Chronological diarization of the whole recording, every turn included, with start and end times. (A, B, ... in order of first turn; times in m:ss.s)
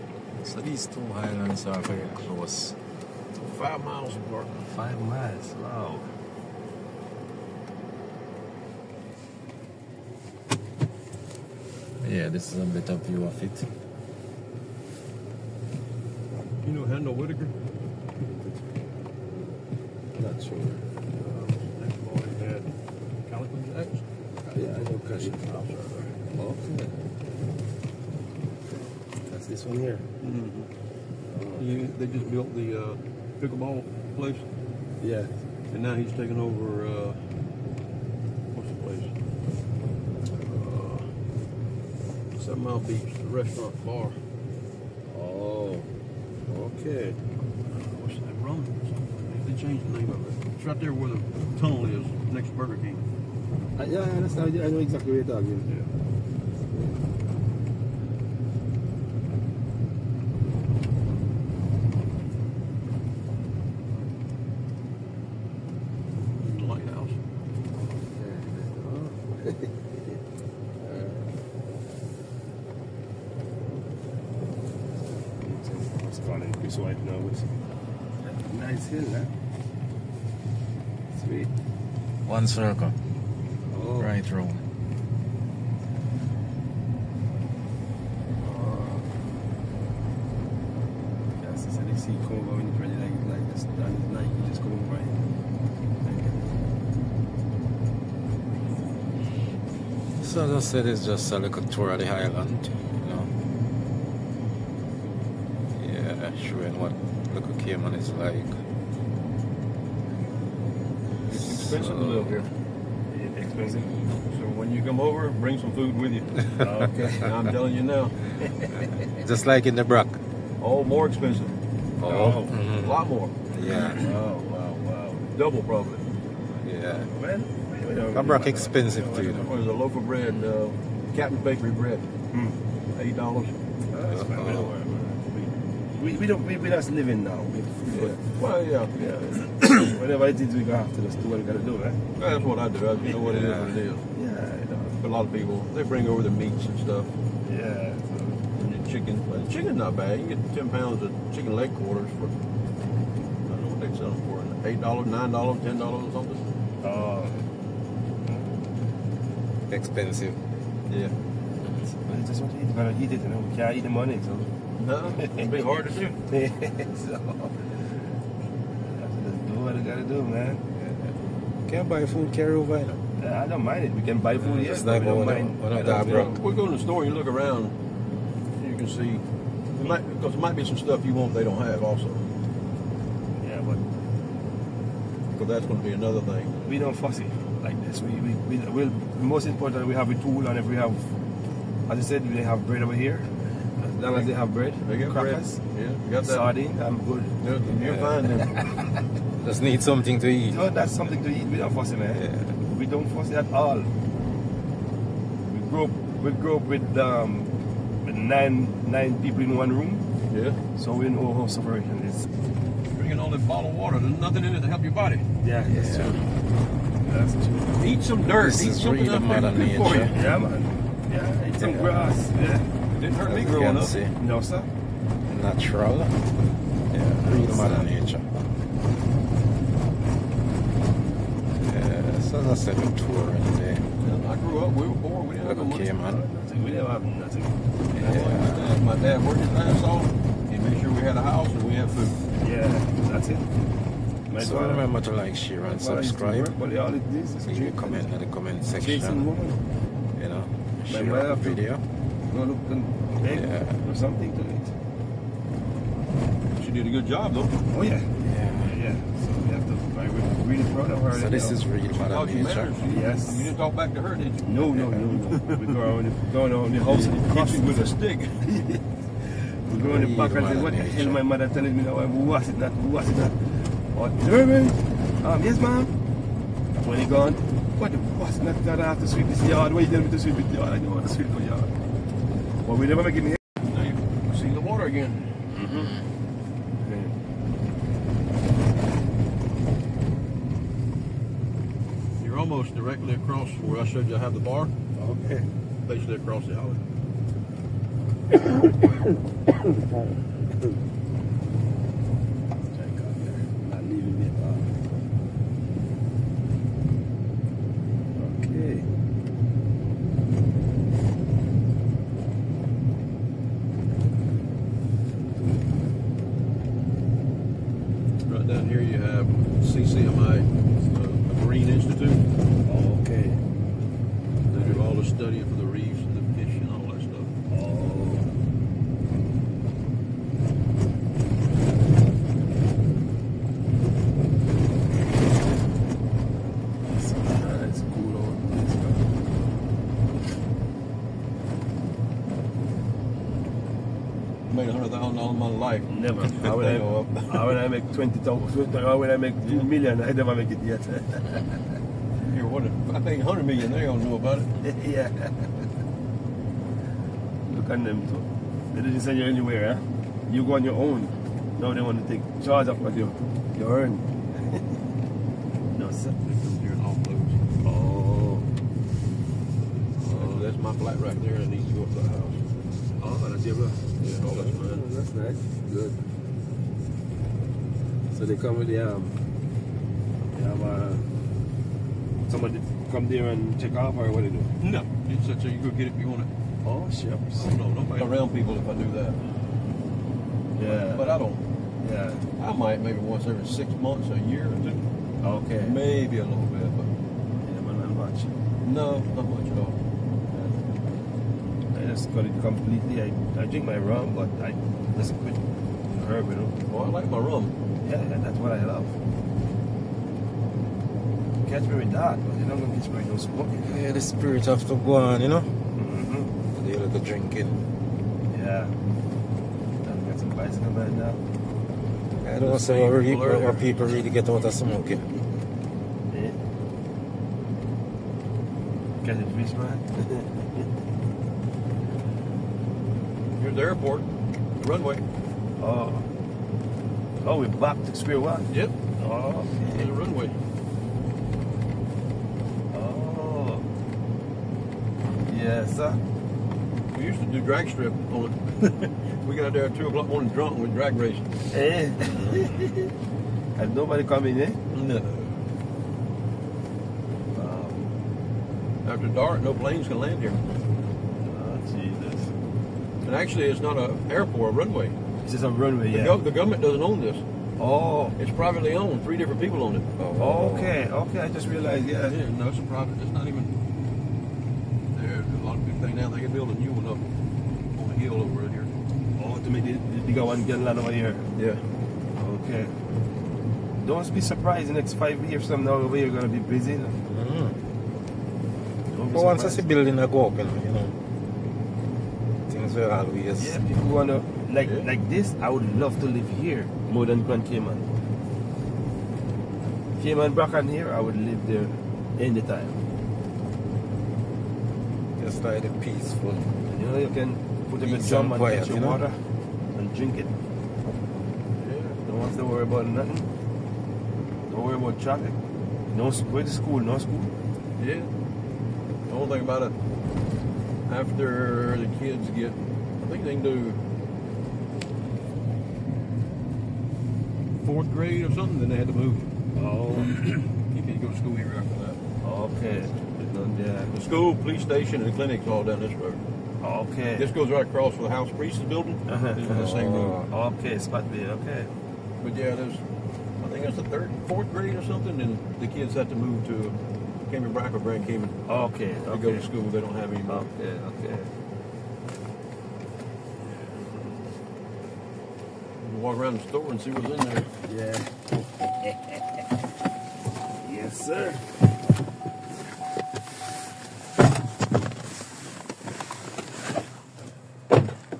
0:00.4-0:02.8 A
0:03.4-0:04.6 B
0:04.7-0:06.1 C
0:12.0-0:13.7 A
0:16.6-0:17.5 B
0:18.4-0:18.6 C
0:20.2-0:20.8 C
0:21.2-0:22.7 B
0:23.2-0:24.0 B
0:24.5-0:25.4 C
0:25.2-0:26.2 B
0:26.3-0:27.0 C
0:29.2-0:30.0 C
0:30.2-0:30.7 B
0:31.3-0:31.8 C
0:31.6-0:34.4 B
0:35.0-0:35.3 C
0:35.7-0:37.2 B
0:38.5-0:39.1 B
0:40.3-0:41.1 B
0:42.3-0:44.2 B
0:45.1-0:45.9 C
0:46.5-0:47.2 C
0:47.7-0:53.0 B
0:53.8-0:55.8 C
1:06.4-1:07.2 B
1:08.1-1:10.2 C
1:10.8-1:11.3 C
1:15.4-1:17.5 C
1:18.2-1:19.3 C
1:21.2-1:21.5 C
1:22.2-1:23.0 A
1:23.7-1:24.1 C
1:24.0-1:24.6 A
1:28.4-1:29.1 C
1:31.4-1:35.3 C
1:36.0-1:36.5 C
1:40.2-1:43.3 A
1:45.7-1:48.6 A
1:51.2-1:52.5 B
1:51.3-1:52.4 A
1:53.1-1:53.9 C
1:54.3-1:56.5 B
1:56.6-1:57.3 C
1:57.1-1:58.2 B
1:59.0-2:00.2 A
2:00.6-2:01.5 B
2:02.0-2:04.1 A
2:02.0-2:02.6 C
2:02.3-2:03.4 B
2:03.7-2:04.0 C
2:03.9-2:06.1 B
2:06.6-2:07.1 A
2:06.9-2:09.5 C
2:08.1-2:09.5 A
2:09.3-2:12.0 B
2:12.3-2:12.6 C
2:12.9-2:13.6 B
2:13.9-2:18.2 C
2:14.1-2:14.7 A
2:17.9-2:18.9 B
2:18.9-2:22.0 C
2:22.2-2:24.0 B
2:23.1-2:23.5 C
2:23.2-2:23.7 A
2:24.1-2:24.9 C
2:24.9-2:27.1 B
2:27.4-2:28.4 C
2:28.5-2:32.3 B
2:33.4-2:36.4 B
2:36.8-2:37.4 C
2:39.7-2:40.4 A
2:40.9-2:41.1 B
2:41.9-2:44.5 C
2:44.8-2:46.2 B
2:45.2-2:45.6 C
2:46.3-2:47.6 C
2:48.9-2:50.6 C
2:51.6-2:53.0 A
2:53.2-2:56.4 C
2:54.4-2:56.4 A
2:55.8-2:57.7 B
2:58.6-2:59.2 B
2:59.7-3:02.3 B
3:03.4-3:03.9 C
3:05.3-3:06.6 B
3:06.6-3:11.0 C
3:11.9-3:15.6 C
3:14.8-3:16.5 B
3:16.2-3:17.3 C
3:17.4-3:18.6 B
3:17.7-3:18.5 A
3:19.4-3:20.6 A
3:20.5-3:23.9 C
3:22.2-3:22.6 A
3:25.4-3:27.5 C
3:28.0-3:30.1 C
3:30.3-3:30.6 B
3:30.8-3:32.3 C
3:32.9-3:35.3 B
3:35.4-3:36.1 C
3:35.6-3:36.2 A
3:35.8-3:36.2 B
3:37.0-3:37.9 C
3:37.8-3:40.2 B
3:38.2-3:40.1 A
3:40.1-3:42.7 C
3:41.6-3:42.1 A
3:42.9-3:44.0 B
3:43.2-3:44.7 C
3:43.3-3:44.1 A
3:45.3-3:46.1 A
3:46.9-3:48.3 A
3:47.2-3:47.8 C
3:51.6-3:53.8 A
3:54.0-3:55.9 B
3:55.4-3:56.2 A
3:56.1-3:58.4 C
3:57.9-3:58.7 A
3:58.0-4:02.2 B
4:02.4-4:03.5 C
4:04.3-4:04.8 C
4:04.4-4:06.5 A
4:05.6-4:08.1 C
4:07.4-4:09.3 A
4:08.8-4:09.6 C
4:10.1-4:11.8 A
4:10.9-4:11.6 C
4:12.3-4:14.7 C
4:13.3-4:13.8 A
4:16.5-4:17.6 B
4:17.7-4:21.6 C
4:18.2-4:18.7 A
4:21.1-4:22.7 A
4:21.9-4:25.8 B
4:22.8-4:23.5 C
4:24.4-4:28.8 C
4:26.8-4:28.4 B
4:29.3-4:35.9 C
4:29.8-4:31.2 A
4:36.7-4:41.7 C
4:42.6-4:43.4 C
4:43.7-4:45.4 B
4:45.5-4:45.9 C
4:46.8-4:47.1 C
4:52.2-4:54.7 B
4:55.0-4:55.5 C
4:55.8-4:56.8 B
4:58.5-4:59.1 C
5:02.7-5:04.7 C
5:08.2-5:08.9 C
5:18.2-5:22.2 B
5:22.6-5:23.4 C
5:24.5-5:27.3 B
5:24.5-5:24.8 C
5:27.5-5:28.3 C
5:36.9-5:39.1 C
5:44.5-5:47.5 B
5:45.9-5:51.6 C
5:52.3-5:54.5 B
5:54.6-5:55.5 C
5:57.4-6:04.6 C
6:05.7-6:06.2 C
6:06.2-6:07.4 B
6:07.6-6:08.5 C
6:10.0-6:10.4 C
6:10.0-6:12.4 B
6:13.0-6:16.0 C
6:14.0-6:14.8 B
6:18.1-6:19.2 C
6:20.3-6:21.0 C
6:22.3-6:24.5 C
6:24.6-6:26.3 B
6:26.6-6:27.5 C
6:27.4-6:29.3 B
6:30.6-6:31.2 C
6:30.6-6:31.4 B
6:31.8-6:32.2 C
6:32.4-6:34.8 B
6:35.2-6:35.8 C
6:35.6-6:36.9 B
6:37.4-6:38.4 C
6:38.6-6:39.8 B
6:40.3-6:40.6 C
6:41.7-6:46.5 C
6:46.7-6:47.5 B
6:47.8-6:48.9 C
6:51.4-6:53.8 C
6:53.6-6:55.5 A
6:55.8-6:56.3 C
6:56.5-6:57.6 A
6:58.3-6:58.7 C
6:59.8-7:01.2 C
7:02.2-7:05.1 A
7:02.4-7:04.0 B
7:06.1-7:06.4 C
7:09.0-7:10.4 C
7:13.4-7:15.0 B
7:15.6-7:16.1 C
7:17.2-7:18.5 C
7:19.0-7:19.9 C
7:19.6-7:20.4 B
7:22.7-7:23.6 C
7:25.3-7:26.0 C
7:26.9-7:31.3 B
7:31.5-7:32.9 C
7:33.6-7:34.6 C
7:34.7-7:35.4 B
7:37.3-7:37.8 C
7:38.8-7:40.4 B
7:41.2-7:42.3 C
7:43.0-7:45.0 B
7:45.2-7:46.2 C
7:45.9-7:47.2 B
7:47.6-7:48.2 C
7:48.2-7:50.0 B
7:50.0-7:50.7 A
7:50.1-7:52.2 C
7:52.0-7:53.5 B
7:54.9-7:57.0 B
7:57.7-7:58.7 B
7:59.2-8:01.2 C
8:01.3-8:01.6 B
8:02.1-8:02.8 C
8:03.8-8:07.0 C
8:07.1-8:07.6 A
8:08.9-8:09.6 C
8:09.1-8:10.9 A
8:12.4-8:13.6 A
8:13.4-8:17.8 C
8:20.0-8:22.8 C
8:25.2-8:26.6 A
8:26.6-8:29.2 C
8:27.8-8:29.0 A
8:29.7-8:30.3 C
8:31.5-8:32.0 B
8:32.0-8:33.3 C
8:34.5-8:35.4 C
8:35.9-8:37.3 C
8:37.8-8:38.1 B
8:39.0-8:39.7 B
8:40.9-8:43.8 B
8:47.6-8:49.3 B
8:49.6-8:50.4 C
8:50.6-8:52.0 B
8:52.2-8:53.9 C
8:53.9-8:56.2 B
8:56.6-8:57.3 C
8:57.2-9:00.2 B
8:59.1-9:01.7 C
8:59.5-9:00.2 A
9:02.2-9:02.8 B
9:03.4-9:06.8 B
9:07.3-9:08.4 B
9:08.4-9:09.5 C
9:09.1-9:10.5 B
9:10.3-9:11.3 C
9:15.8-9:17.5 B
9:17.6-9:19.2 C
9:20.6-9:21.4 C